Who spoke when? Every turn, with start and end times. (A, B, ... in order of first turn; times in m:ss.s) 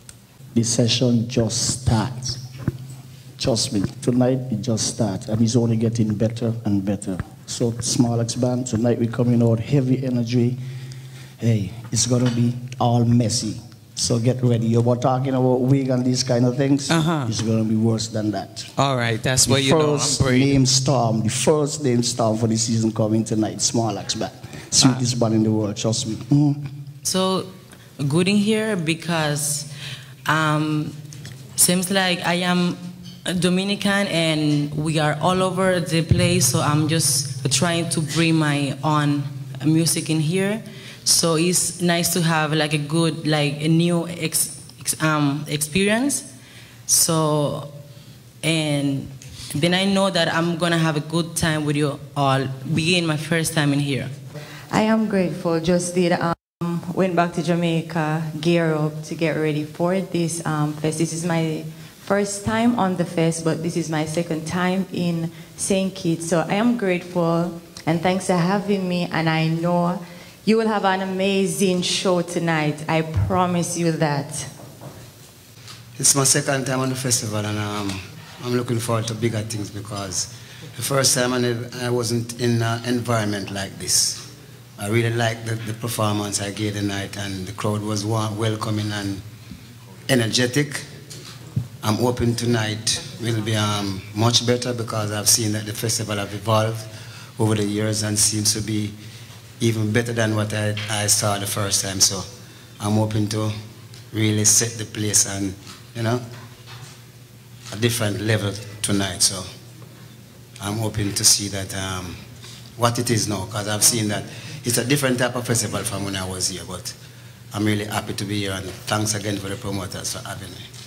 0:00.5-0:02.4 A
0:03.4-0:10.6 A
0:11.4-0:18.7 A
0:16.9-0:17.3 B
0:18.8-0:20.6 B
0:19.4-0:26.6 A
0:24.8-0:25.0 B
0:27.0-0:29.7 C
0:30.3-0:31.0 C
0:31.6-0:46.3 C
0:46.9-0:47.7 C
0:48.4-0:54.1 C
0:54.7-1:14.5 D
1:16.0-1:24.3 E
1:24.8-1:29.2 E
1:30.1-1:30.8 E
1:31.8-1:39.0 E
1:39.6-1:42.3 E
1:42.8-1:43.6 E
1:44.1-1:46.2 E
1:47.7-1:49.5 E
1:50.6-1:52.2 E
1:52.8-1:56.9 E
1:57.5-2:00.7 E